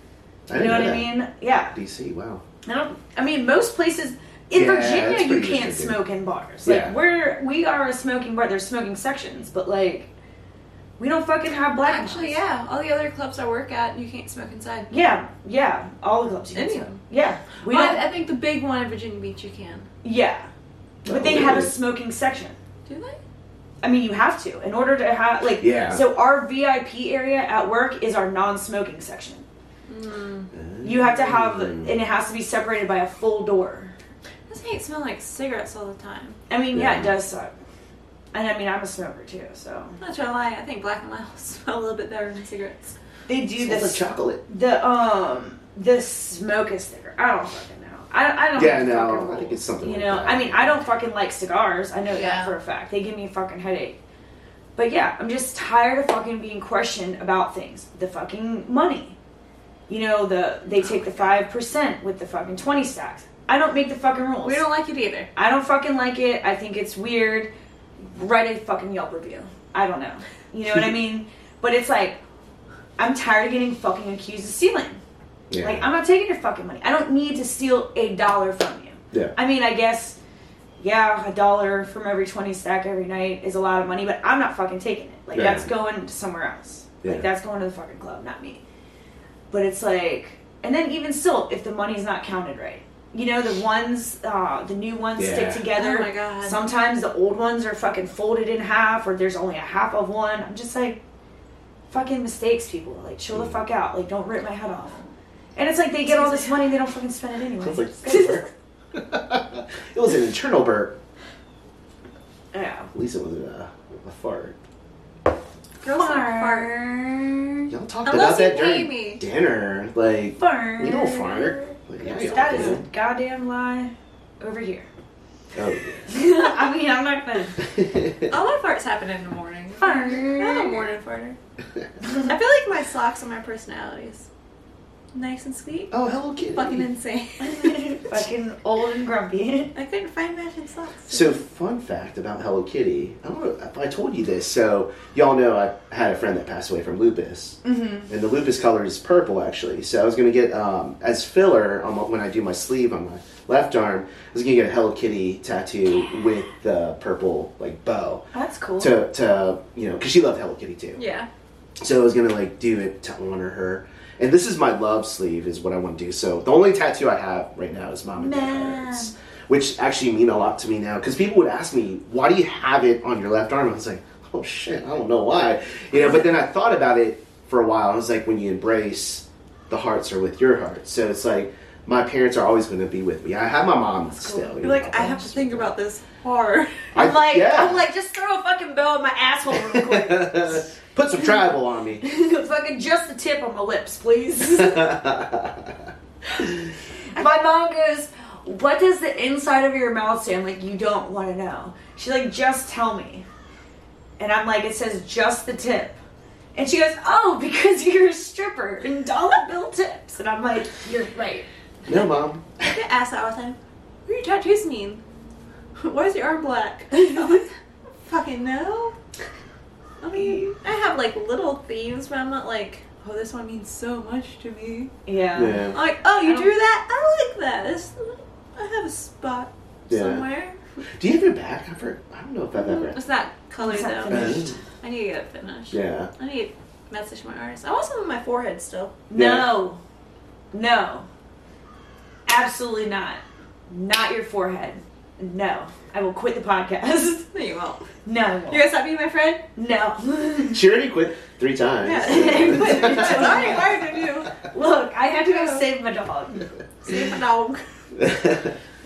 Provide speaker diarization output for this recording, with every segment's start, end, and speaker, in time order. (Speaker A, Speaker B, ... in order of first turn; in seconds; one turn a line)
Speaker A: 0.5-1.1
Speaker B: 0.5-1.8
Speaker A: 1.7-2.4
Speaker B: 2.6-10.1
Speaker A: 4.5-6.0
Speaker A: 6.7-7.0
Speaker B: 11.0-12.4
Speaker C: 11.9-14.9
Speaker B: 14.9-18.0
Speaker C: 16.6-17.0
Speaker C: 17.7-19.9
Speaker B: 20.0-20.5
Speaker B: 21.0-22.6
Speaker A: 21.1-21.7
Speaker C: 22.9-23.2
Speaker B: 23.8-29.4
Speaker A: 25.6-26.1
Speaker C: 29.9-30.5
Speaker A: 30.5-32.0
Speaker B: 30.8-33.9
Speaker C: 34.5-36.4
Speaker B: 36.5-37.5
Speaker A: 36.7-37.1
Speaker B: 38.3-40.0
Speaker C: 40.0-43.0
Speaker B: 43.3-54.0
Speaker A: 43.6-44.4
Speaker A: 48.6-50.8
Speaker C: 52.1-52.5
Speaker B: 54.8-59.2
Speaker B: 59.9-64.7
Speaker C: 60.7-61.4
Speaker C: 64.4-65.3
Speaker B: 65.3-72.2
Speaker B: 73.0-75.0
Speaker A: 75.5-75.9
Speaker B: 75.6-80.2
Speaker B: 80.8-88.6
Speaker A: 85.3-85.7
Speaker B: 89.5-101.0
Speaker A: 95.2-95.7
Speaker C: 95.8-96.6
Speaker B: 101.9-108.5
Speaker C: 106.1-106.5
Speaker A: 107.6-111.0
Speaker B: 112.5-112.9
Speaker A: 112.9-114.5
Speaker C: 115.8-116.7
Speaker B: 115.9-117.7
Speaker A: 117.7-122.8
Speaker C: 118.0-119.2
Speaker B: 120.4-124.9
Speaker A: 125.5-126.1
Speaker B: 126.1-127.6
Speaker A: 127.7-128.2
Speaker C: 128.3-131.4
Speaker B: 129.8-130.8
Speaker C: 132.3-134.3
Speaker C: 135.1-135.9
Speaker A: 135.9-136.8
Speaker C: 136.5-137.9
Speaker B: 137.4-139.7
Speaker C: 139.7-141.4
Speaker A: 141.1-158.2
Speaker B: 147.7-148.1
Speaker B: 158.3-158.9
Speaker A: 158.8-161.0
Speaker C: 161.0-161.3
Speaker A: 161.8-185.7
Speaker B: 168.2-169.1
Speaker B: 184.1-184.6
Speaker C: 184.6-186.8
Speaker A: 186.9-187.8
Speaker B: 187.0-190.7
Speaker A: 189.5-192.0
Speaker B: 192.0-195.0
Speaker A: 194.6-195.8
Speaker B: 197.2-203.2
Speaker B: 204.2-206.0
Speaker B: 206.6-211.5
Speaker A: 211.9-212.5
Speaker C: 212.7-215.0
Speaker C: 215.8-217.5
Speaker B: 216.9-217.4
Speaker C: 218.0-219.0
Speaker C: 220.0-224.9
Speaker B: 220.1-220.5
Speaker B: 225.1-226.5
Speaker A: 225.3-225.8
Speaker C: 225.7-230.6
Speaker A: 229.9-230.2
Speaker A: 231.0-233.0
Speaker C: 232.6-238.9
Speaker B: 233.6-234.6
Speaker A: 234.1-234.6
Speaker A: 235.7-236.1
Speaker B: 239.1-239.8
Speaker A: 239.1-239.5
Speaker B: 240.5-241.1
Speaker B: 242.3-247.3
Speaker C: 247.3-247.9
Speaker B: 248.1-248.7
Speaker C: 248.5-249.4
Speaker B: 249.6-250.6
Speaker A: 250.5-253.7
Speaker C: 251.8-254.3
Speaker B: 252.0-256.5
Speaker C: 255.2-255.6
Speaker C: 256.8-257.6
Speaker A: 258.0-258.6